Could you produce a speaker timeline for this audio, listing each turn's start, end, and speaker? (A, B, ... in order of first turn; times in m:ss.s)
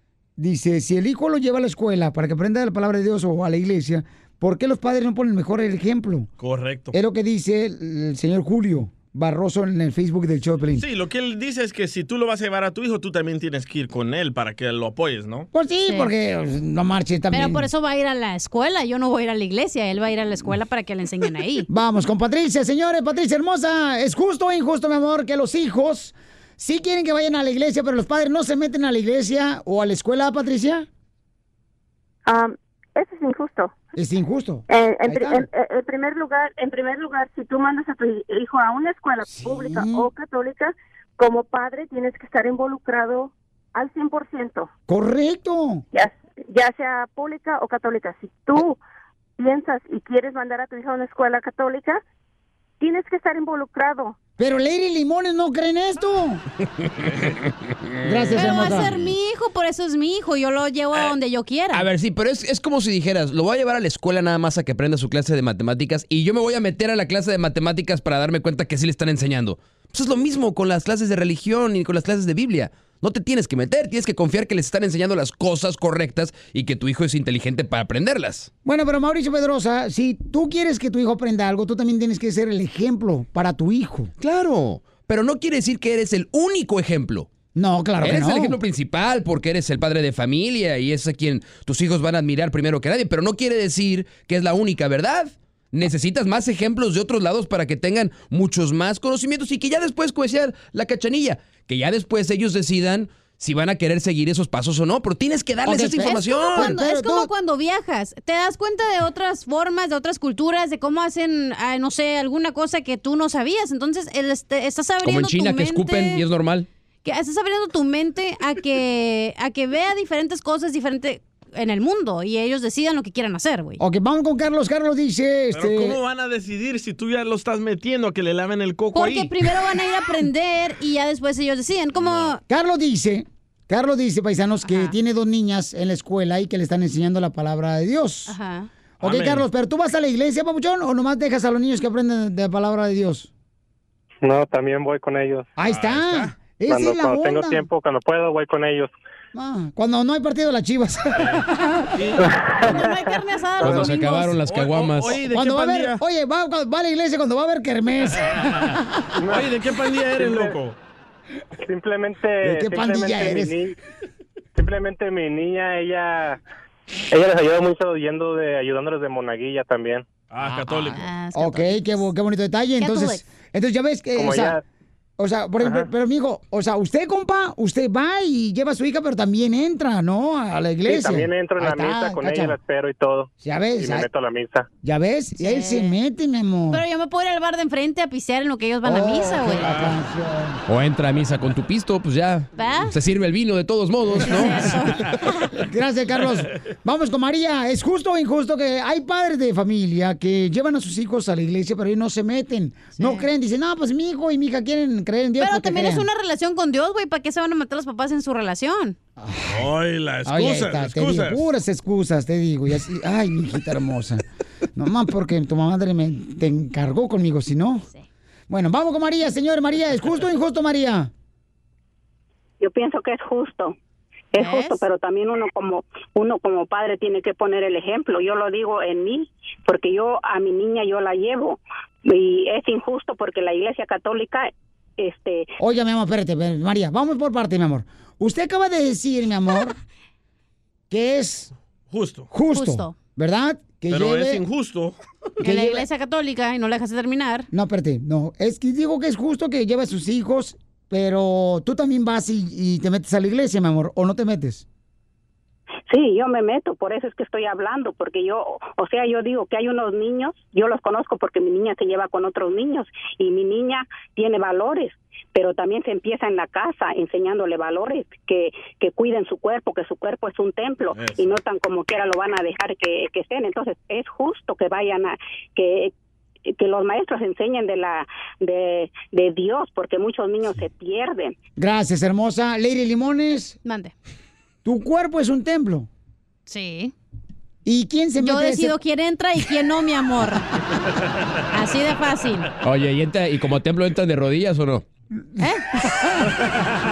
0:00.4-0:06.3 A
0:06.4-0:06.9 B
0:06.9-0:10.8 A
0:10.8-0:15.5 B
0:15.5-0:17.7 A
0:17.3-0:21.7 C
0:21.7-0:30.9 A
0:32.3-0:33.7 D
0:34.0-0:35.5 A
0:34.7-0:44.7 D
0:39.2-0:40.1 A
0:44.9-0:45.8 A
0:45.9-0:48.8 D
0:49.4-0:52.0 D
0:52.8-0:54.2 D
0:54.4-0:56.4 A
0:58.0-0:59.0 A
0:58.3-1:01.9 C
1:01.7-1:18.5 E
1:18.6-1:24.1 A
1:24.2-1:27.3 E
1:27.6-1:28.6 A
1:28.0-1:46.8 E
1:45.6-1:47.3 A
1:46.0-1:56.2 C
1:55.0-1:56.7 E
1:57.0-2:03.8 C
2:03.8-2:06.0 A
2:05.5-2:09.6 B
2:08.9-2:12.4 C
2:12.0-2:12.4 B
2:12.5-2:18.4 A
2:14.6-2:15.0 C
2:18.3-2:18.7 C
2:19.0-2:23.3 A
2:19.0-2:19.4 B
2:24.2-2:25.5 F
2:25.6-2:27.7 A
2:25.6-2:26.3 B
2:26.7-2:28.9 F
2:29.3-2:32.0 A
2:31.2-2:32.3 B
2:32.7-2:34.4 C
2:33.6-2:34.1 A
2:33.6-2:35.1 E
2:34.4-2:36.0 B
2:35.1-2:39.1 A
2:39.3-2:40.8 B
2:40.2-2:40.6 F
2:41.6-2:43.7 F
2:42.4-2:43.6 A
2:44.6-2:46.4 F
2:47.1-2:50.0 F
2:50.3-2:51.0 B
2:50.4-2:54.6 A
2:51.0-2:52.0 C
2:52.8-2:53.2 C
2:54.2-2:54.6 F
2:55.2-3:02.6 A
2:55.6-2:55.9 F
3:00.9-3:04.7 F
3:03.4-3:04.1 A
3:04.8-3:06.8 A
3:05.4-3:06.0 C
3:06.7-3:09.7 C
3:08.8-3:10.6 A
3:09.6-3:10.0 B
3:10.7-3:14.7 E
3:12.6-3:13.0 C
3:14.2-3:26.1 A
3:14.2-3:15.5 C
3:23.0-3:23.3 C
3:25.4-3:29.0 C
3:29.2-3:29.7 A
3:29.5-3:31.5 B
3:30.3-3:34.2 A
3:34.8-3:37.9 A
3:38.5-3:41.1 A
3:42.6-3:43.8 G
3:44.3-3:55.5 G
3:44.4-3:44.8 C
3:55.6-3:59.8 A
4:00.9-4:01.5 A
4:01.9-4:02.3 B
4:02.3-4:04.4 A
4:02.5-4:03.0 C
4:03.9-4:05.0 B
4:05.4-4:07.5 C
4:05.4-4:05.8 A
4:07.5-4:14.6 A
4:15.9-4:35.9 G
4:30.9-4:31.3 B
4:36.5-4:41.4 G
4:41.6-4:43.6 A
4:43.6-4:43.9 C
4:44.6-4:45.9 A
4:46.5-4:46.9 C
4:47.6-4:48.8 A
4:48.2-4:50.4 C
4:51.5-4:52.5 C
4:52.6-4:54.8 E
4:55.4-4:56.2 A